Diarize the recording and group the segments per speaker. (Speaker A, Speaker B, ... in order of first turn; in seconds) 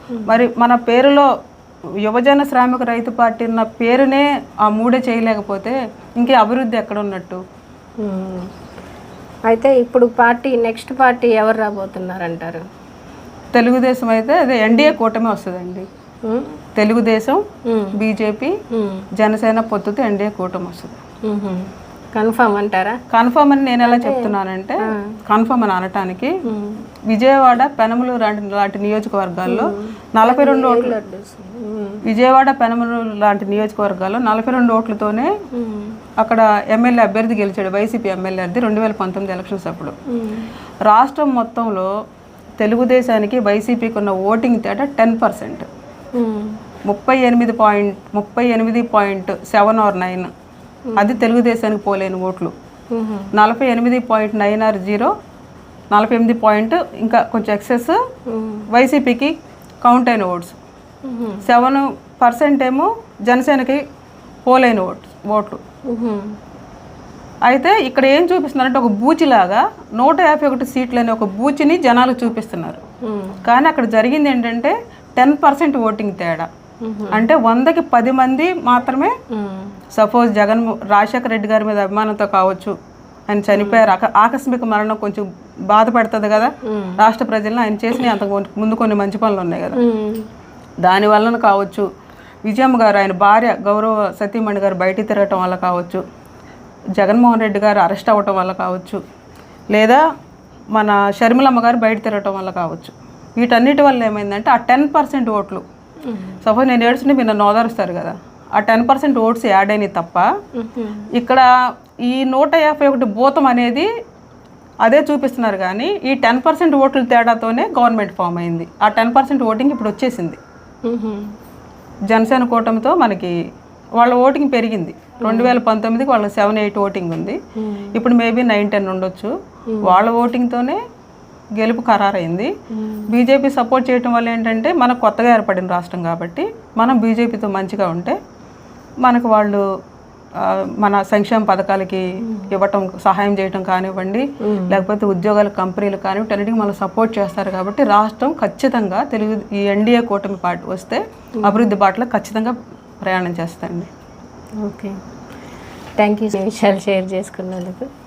Speaker A: 0.1-0.4, 8.0-8.5, 9.5-12.6, 16.2-16.6, 17.7-17.9, 18.7-19.1, 21.3-23.0, 23.8-25.1, 26.4-26.8, 29.4-32.0, 35.5-36.0, 40.1-40.5, 46.2-46.5, 50.9-51.2, 52.9-53.3, 58.3-58.6, 61.1-61.4, 65.9-66.2, 73.1-73.4, 76.8-77.3, 79.3-79.7, 83.5-83.9, 86.6-87.0, 89.7-90.2, 106.1-106.4, 110.6-111.1, 120.9-121.3, 125.2-125.6, 127.6-127.9, 129.7-129.9, 132.7-133.1, 142.2-142.5, 144.4-144.8, 151.4-151.7, 154.6-154.9, 156.0-157.9
Speaker B: 0.2-1.3, 2.0-7.4, 13.5-15.9, 16.8-17.4, 17.9-18.5, 19.1-20.9, 23.1-26.4, 27.1-30.9, 32.0-35.3, 36.2-39.9, 40.9-41.9, 42.6-45.7, 46.9-50.3, 51.0-52.5, 53.3-55.1, 55.9-58.0, 58.7-60.5, 61.4-63.8, 64.5-65.6, 67.5-72.8, 73.4-76.5, 77.1-79.1, 79.9-82.7, 83.3-89.8, 90.8-91.9, 92.5-96.0, 97.0-99.0, 99.7-100.0, 100.7-105.6, 106.4-110.3, 111.1-111.5, 112.1-113.9, 114.8-120.4, 122.1-123.3, 124.0-127.4, 127.9-129.3, 129.8-130.8, 131.6-132.5, 133.1-138.2, 139.0-139.6, 140.4-153.9